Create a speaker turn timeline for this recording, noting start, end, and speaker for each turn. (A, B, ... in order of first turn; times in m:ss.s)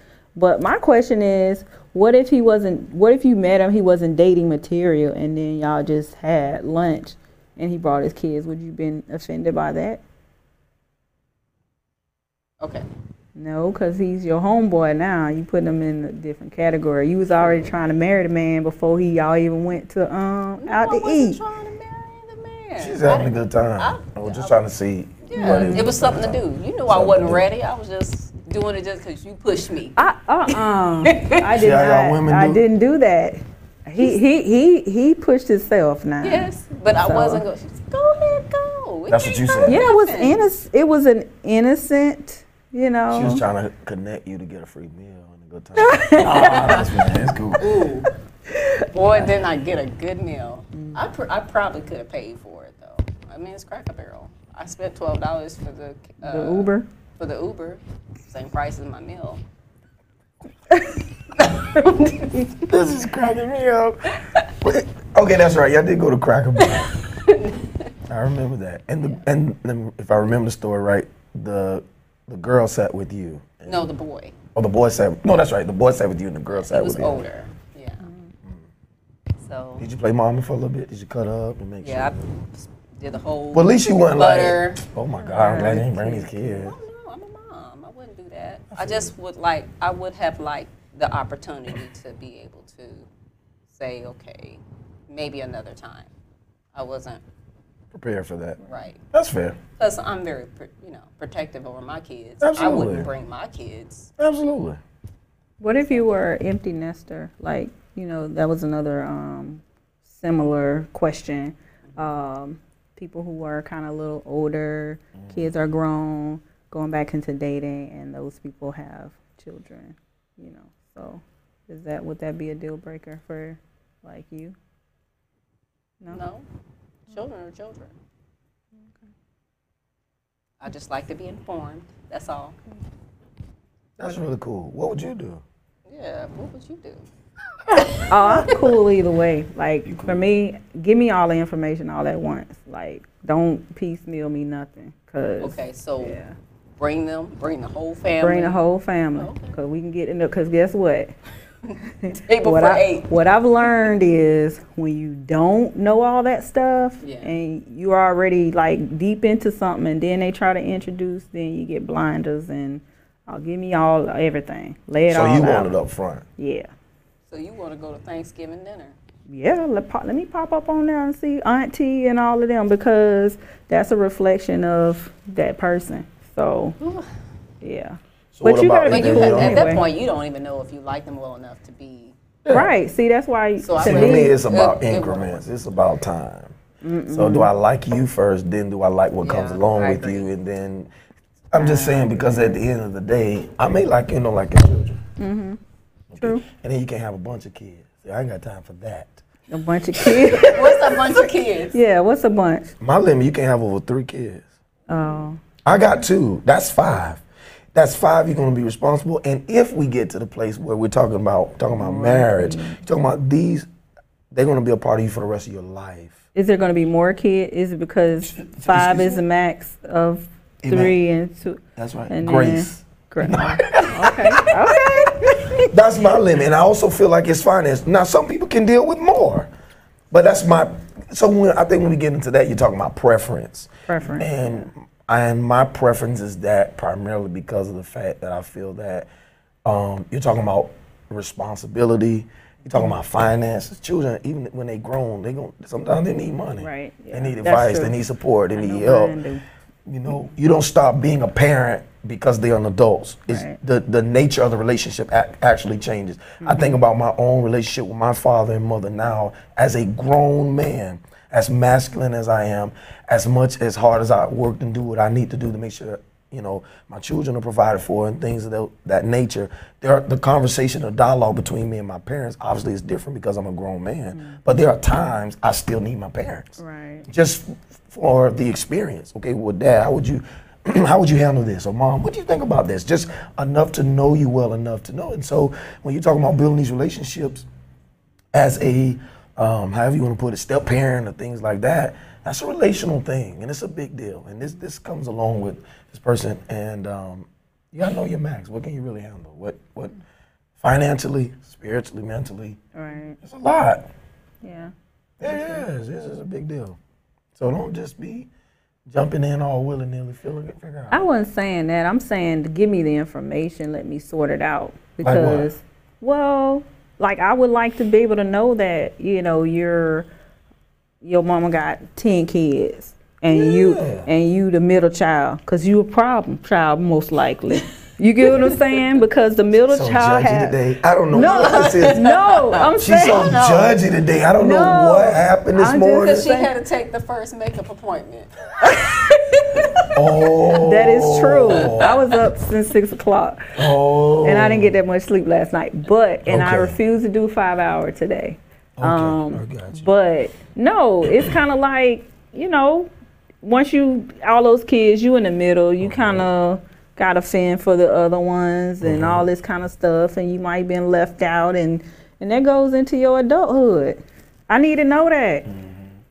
0:00.4-0:10.0 A
0:13.4-0:21.4 A
0:20.6-0:24.6 B
0:22.8-0:27.5 C
0:25.2-0:31.4 B
0:25.4-0:25.9 A
0:30.0-0:36.5 A
0:31.5-0:32.6 C
0:36.2-0:40.4 B
0:37.0-0:37.4 A
0:39.1-0:39.8 C
0:39.7-0:43.4 A
0:43.1-0:47.8 C
0:45.8-0:46.6 A
0:46.2-0:46.9 B
0:47.6-0:48.1 B
0:48.5-0:48.8 A
0:48.9-0:59.4 B
0:56.2-0:56.9 A
1:01.4-1:02.4 B
1:02.7-1:04.1 C
1:04.6-1:06.9 C
1:06.6-1:07.7 B
1:08.1-1:13.9 C
1:13.7-1:14.4 B
1:14.6-1:17.3 C
1:16.5-1:18.0 B
1:18.0-1:18.3 A
1:19.4-1:19.9 B
1:19.8-1:22.2 C
1:21.8-1:24.8 B
1:23.5-1:26.8 C
1:25.2-1:26.3 A
1:26.4-1:33.1 B
1:28.7-1:29.1 C
1:33.7-1:36.1 B
1:36.8-1:37.2 B
1:37.9-1:38.6 C
1:38.6-1:39.0 B
1:39.1-1:39.6 C
1:39.8-1:44.1 B
1:42.4-1:43.1 C
1:44.2-1:44.8 C
1:45.6-2:04.6 A
1:55.2-1:55.5 C
2:06.1-2:06.5 B
2:07.1-2:07.9 B
2:10.6-2:12.6 B
2:14.0-2:15.4 C
2:15.9-2:17.0 B
2:17.7-2:18.7 B
2:18.1-2:26.3 A
2:19.9-2:20.2 C
2:25.4-2:26.2 B
2:26.8-2:28.6 B
2:28.2-2:31.1 A
2:29.2-2:29.6 B
2:31.7-2:33.1 B
2:32.0-2:45.7 A
2:37.0-2:37.3 B
2:45.1-2:46.2 C
2:46.4-2:46.7 A
2:47.3-2:49.0 B
2:49.3-2:56.8 A
2:56.8-2:57.1 B
2:57.6-2:59.8 A
2:58.3-2:59.8 C
2:58.9-3:02.2 B
3:02.4-3:02.7 C
3:02.5-3:04.4 A
3:03.6-3:05.4 B
3:03.8-3:06.6 C
3:06.8-3:07.5 A
3:07.1-3:10.9 C
3:09.2-3:10.3 B
3:11.5-3:15.0 C
3:11.6-3:12.6 A
3:15.2-3:15.6 A
3:16.1-3:19.2 C
3:19.5-3:21.2 A
3:20.0-3:20.5 C
3:20.4-3:21.8 B
3:21.7-3:22.7 A
3:22.8-3:24.5 C
3:24.9-3:25.4 A
3:25.6-3:27.2 C
3:27.7-3:33.7 C
3:31.8-3:32.8 A
3:34.3-3:36.2 C
3:36.4-3:45.7 A
3:38.3-3:39.2 C
3:40.6-3:41.0 C
3:41.8-3:45.1 C
3:45.7-3:49.5 C
3:50.1-3:59.1 C
3:53.9-3:54.7 A
3:59.7-4:09.2 C
4:06.6-4:08.0 A
4:08.5-4:09.4 A
4:09.9-4:47.5 C
4:13.3-4:13.6 A
4:16.4-4:16.8 A
4:34.1-4:34.4 A
4:36.6-4:37.1 A
4:48.3-5:00.0 C
5:00.6-5:02.6 C
5:02.8-5:03.2 A
5:03.2-5:03.8 C
5:04.4-5:04.7 A
5:05.2-5:06.8 C
5:05.2-5:05.6 A
5:07.4-5:08.3 C
5:08.9-5:11.0 C
5:10.9-5:20.1 A
5:15.0-5:15.5 C
5:21.0-5:30.6 A
5:23.3-5:24.1 C
5:29.7-5:32.0 C
5:31.1-5:33.4 A
5:31.2-5:33.8 B
5:32.8-5:36.3 C
5:34.4-5:36.5 A
5:36.0-5:39.9 B
5:39.9-5:42.0 C
5:40.5-5:43.6 A
5:41.5-5:42.1 B
5:43.6-5:44.8 C
5:44.2-5:52.9 A
5:46.3-5:46.8 C
5:48.8-5:49.9 C
5:53.4-6:05.5 A
5:55.8-5:56.3 C
5:58.8-5:59.3 C
6:05.5-6:06.0 C